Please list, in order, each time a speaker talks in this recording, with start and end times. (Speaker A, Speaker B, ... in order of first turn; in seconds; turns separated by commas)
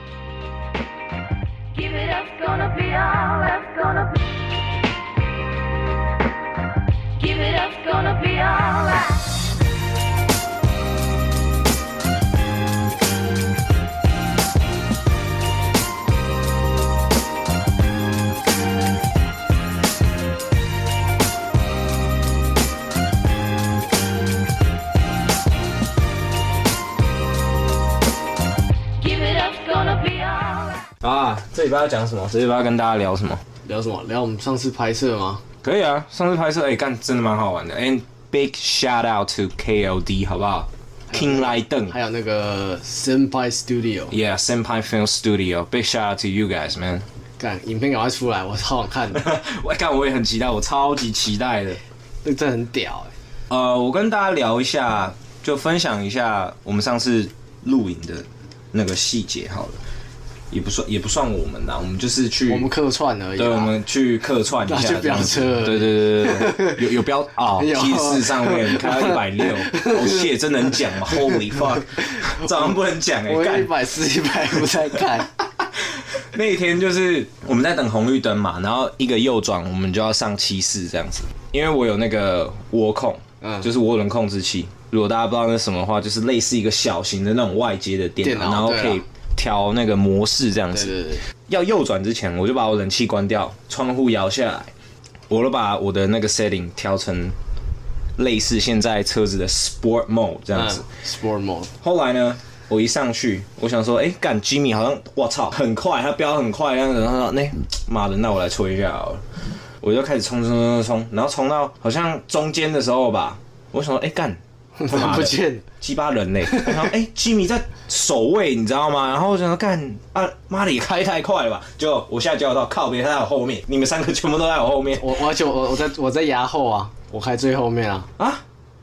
Speaker A: 1.7-4.3, Speaker A: 7.2-9.3, Speaker A: 29.0-30.9, Speaker B: 31.0-33.4, Speaker C: 33.6-35.4, Speaker B: 35.6-41.9, Speaker C: 41.1-44.1, Speaker B: 44.1-47.0, Speaker C: 47.4-49.2, Speaker B: 49.1-51.8, Speaker C: 52.2-53.1, Speaker B: 53.5-59.8, Speaker B: 60.5-62.7, Speaker C: 62.5-63.7, Speaker B: 63.4-73.7, Speaker C: 64.6-66.8, Speaker C: 67.6-70.3, Speaker C: 73.3-75.3, Speaker B: 76.2-94.7, Speaker C: 88.2-89.0, Speaker C: 90.7-91.2, Speaker B: 95.3-97.3, Speaker B: 98.2-100.8, Speaker C: 100.5-101.7, Speaker B: 101.8-109.2, Speaker B: 109.8-125.1, Speaker C: 114.8-115.6, Speaker C: 116.5-116.9, Speaker C: 125.0-128.1